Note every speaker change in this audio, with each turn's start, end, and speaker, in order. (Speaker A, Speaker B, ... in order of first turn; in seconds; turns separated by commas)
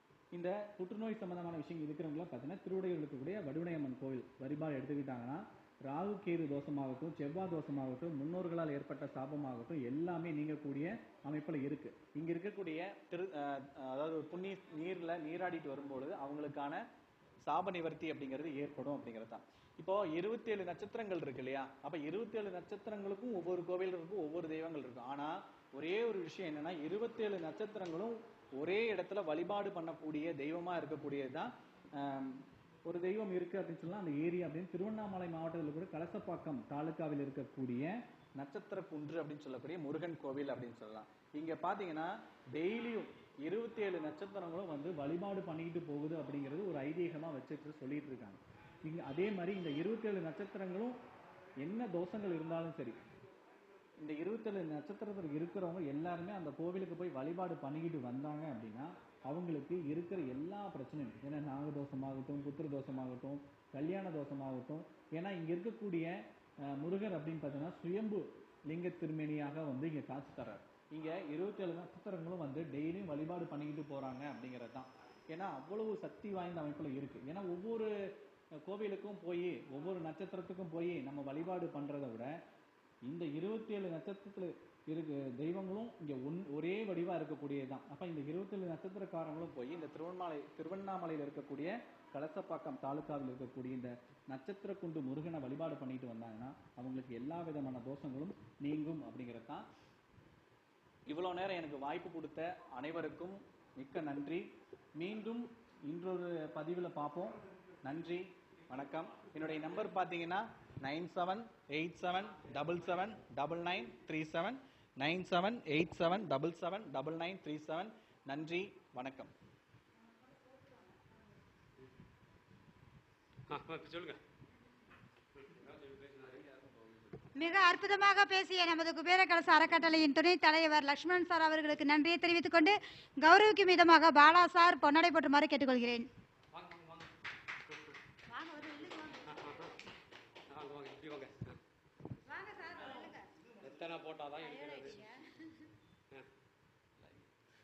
Speaker A: 0.3-16.8, Speaker A: 17.4-51.0, Speaker A: 51.6-53.0, Speaker A: 54.0-82.3, Speaker A: 83.0-99.7, Speaker A: 101.1-119.3, Speaker B: 123.5-124.2, Speaker B: 125.4-126.8, Speaker C: 127.3-136.1, Speaker B: 136.5-137.1, Speaker C: 138.3-139.3, Speaker B: 139.3-139.7, Speaker B: 140.5-141.6, Speaker C: 142.2-143.3, Speaker B: 143.6-145.0, Speaker C: 144.5-145.2